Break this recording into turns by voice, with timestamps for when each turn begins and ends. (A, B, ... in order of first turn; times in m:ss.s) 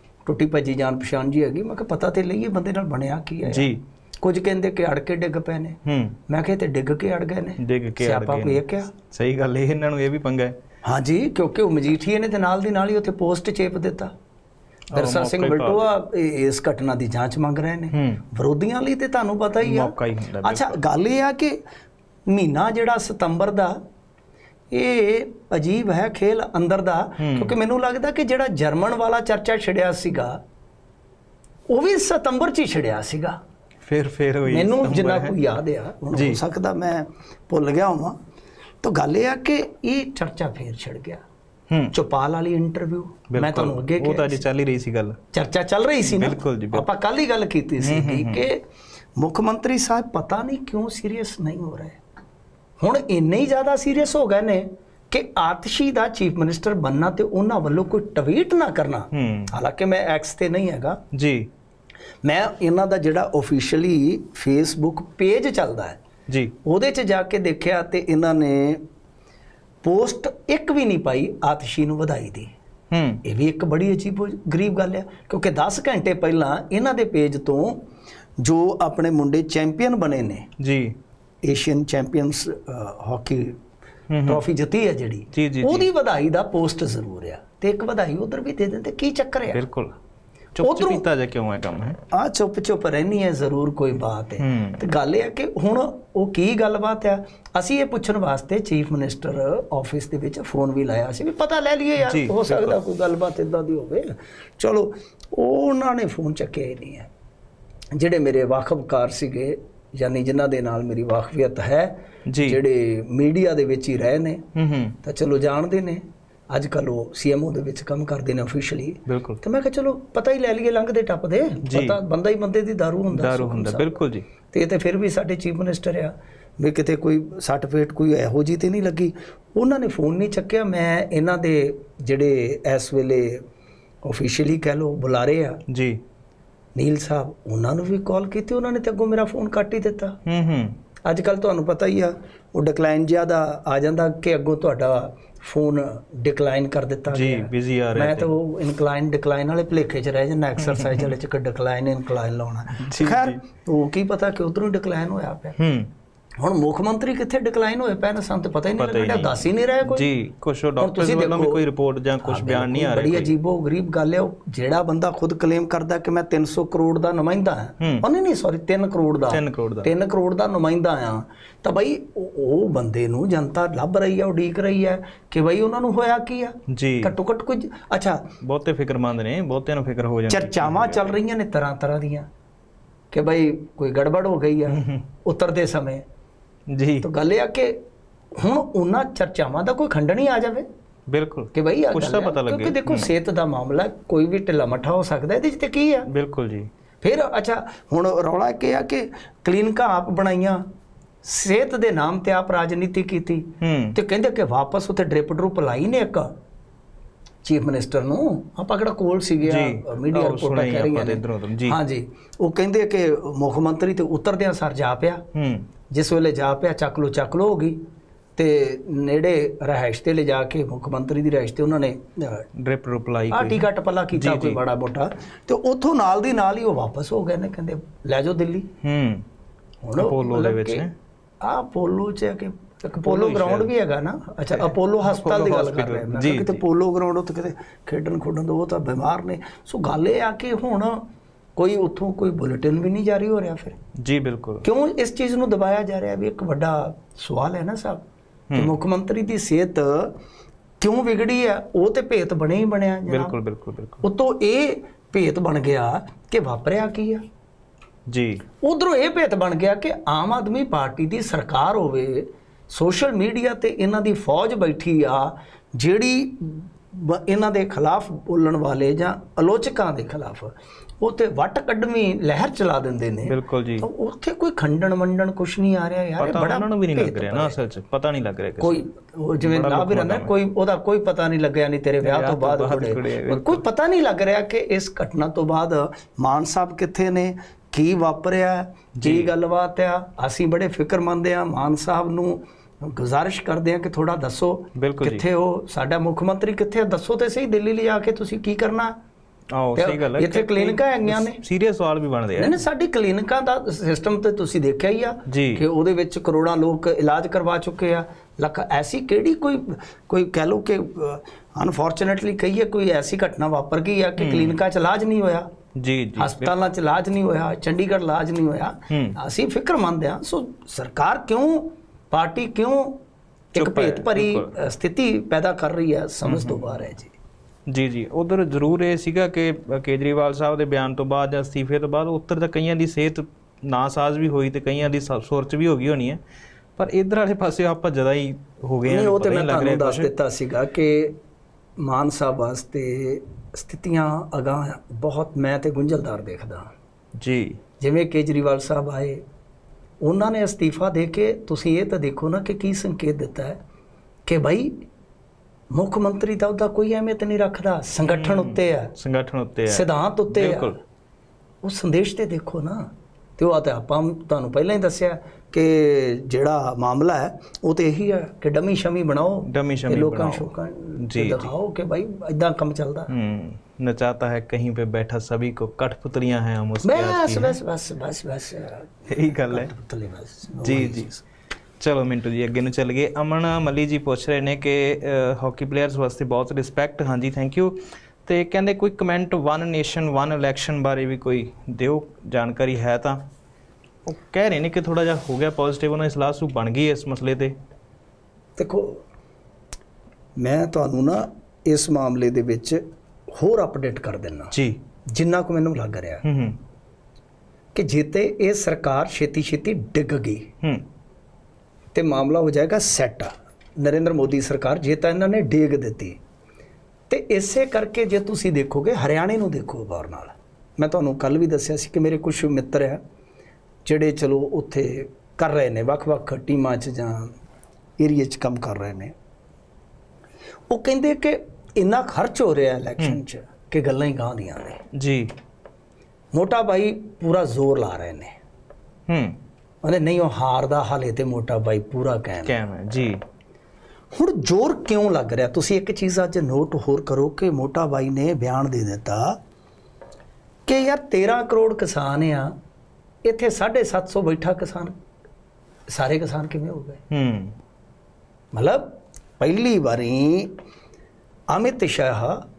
0:00.3-0:05.8 A
0:03.5-0:03.8 B
0:05.8-0:06.2 B
0:06.3-0:08.9 A
0:07.6-0:10.6 B
0:10.8-0:14.1 A
0:14.9-0:15.9 B
0:14.9-0:21.6 A
0:17.9-0:18.2 B
0:19.6-0:20.8 B
0:22.3-0:23.8 A
0:24.7-0:30.4 A
0:27.2-0:27.5 B
0:31.7-0:33.4 A
0:33.8-0:35.4 B
0:34.5-0:38.2 A
0:36.1-0:36.4 B
0:38.8-0:41.2 A
0:41.9-0:44.4 A
0:43.3-0:45.2 B
0:45.3-0:48.6 A
0:46.0-0:46.9 B
0:47.8-0:48.4 B
0:49.2-0:52.0 A
0:52.8-1:01.0 A
0:59.1-0:59.5 B
1:01.1-1:01.5 B
1:02.2-1:06.0 A
1:06.3-1:06.5 B
1:06.6-1:08.8 A
1:09.8-1:12.5 A
1:12.9-1:13.2 B
1:13.2-1:17.8 A
1:18.4-1:20.5 A
1:20.6-1:21.0 B
1:21.4-1:23.6 A
1:24.1-1:24.4 B
1:24.2-1:29.6 A
1:25.3-1:25.9 B
1:29.5-1:29.9 B
1:30.6-1:32.0 B
1:30.6-1:31.0 A
1:32.1-1:47.1 A
1:34.4-1:34.8 B
1:42.0-1:42.8 B
1:47.9-1:54.4 A
1:52.3-1:52.6 B
1:54.6-1:55.0 B
1:55.0-2:04.0 A
1:59.1-1:59.4 B
2:01.6-2:02.0 B
2:03.1-2:04.2 B
2:04.5-2:13.4 A
2:14.0-2:15.6 A
2:15.7-2:16.0 B
2:16.8-2:20.2 A
2:20.2-2:20.8 B
2:21.0-2:35.6 A
2:27.1-2:28.3 B
2:30.6-2:31.1 B
2:32.8-2:33.4 B
2:35.6-2:35.9 B
2:36.4-2:40.1 A
2:38.8-2:43.3 B
2:40.8-2:41.7 A
2:42.2-2:58.2 A
2:47.8-2:48.1 B
2:49.3-2:49.9 B
2:56.7-2:57.1 B
2:58.4-3:01.2 B
3:00.3-3:02.3 A
3:03.1-3:06.0 A
3:04.8-3:05.0 B
3:06.7-3:07.1 B
3:07.0-3:07.8 A
3:08.4-3:10.7 A
3:11.1-3:13.1 B
3:11.5-3:16.1 A
3:16.1-3:16.7 B
3:17.0-3:20.6 A
3:21.2-3:26.3 A
3:23.6-3:24.0 B
3:27.4-3:35.2 A
3:29.4-3:31.8 B
3:35.3-3:35.7 B
3:35.9-3:37.8 A
3:38.4-3:42.4 A
3:42.6-3:44.6 B
3:43.3-3:48.7 A
3:48.8-3:49.2 B
3:49.8-3:50.9 A
3:50.0-3:50.9 B
3:51.4-4:01.0 A
3:53.0-3:53.7 B
3:54.5-3:56.6 B
4:01.6-4:03.8 A
4:04.0-4:04.7 B
4:04.6-4:10.2 A
4:08.5-4:08.8 B
4:10.8-4:13.4 A
4:13.1-4:14.0 B
4:14.0-4:17.2 A
4:18.1-4:18.4 B
4:18.6-4:37.6 A
4:33.3-4:33.9 B
4:36.2-4:38.9 B
4:38.6-4:59.0 A
4:39.4-4:40.3 B
4:42.0-4:43.6 B
4:49.0-4:49.3 B
4:54.8-4:55.2 B
4:59.5-5:02.6 B
4:59.8-5:01.4 A
5:02.4-5:15.5 A
5:05.3-5:05.6 B
5:14.2-5:14.6 B
5:15.8-5:16.5 B
5:16.2-5:23.0 A
5:18.9-5:19.2 B
5:23.5-5:27.1 A
5:23.6-5:24.6 B
5:26.3-5:26.6 B
5:27.7-5:36.2 B
5:36.8-5:40.1 B
5:38.8-5:41.2 A
5:41.8-5:46.7 A
5:47.2-5:47.6 B
5:47.8-5:49.2 A
5:50.0-5:53.6 A
5:54.3-5:54.8 A
5:55.7-5:58.9 A
5:58.1-6:00.8 B
5:59.7-6:00.8 A
6:01.6-6:13.1 A
6:09.5-6:11.5 B
6:13.1-6:17.6 B
6:16.8-6:21.2 A
6:19.1-6:19.7 B
6:20.5-6:21.2 B
6:21.8-6:33.2 B
6:34.1-6:37.6 B
6:38.6-6:39.0 A
6:40.4-6:42.8 A
6:43.4-6:44.5 A
6:44.5-6:44.8 B
6:45.1-6:46.2 A
6:46.2-6:46.6 B
6:47.8-6:50.5 A
6:51.9-6:56.2 A
6:57.1-7:03.0 A
7:03.8-7:07.4 A
7:08.0-7:09.1 A
7:10.7-7:14.8 A
7:14.9-7:15.3 B
7:16.3-7:18.4 A
7:19.1-7:19.4 B
7:19.8-7:22.6 A
7:22.4-7:23.2 B
7:24.1-7:29.4 A
7:30.7-7:32.5 A
7:33.2-7:34.9 A
7:35.9-7:37.0 A
7:37.1-7:37.5 B
7:38.5-7:40.5 A
7:41.5-7:42.4 A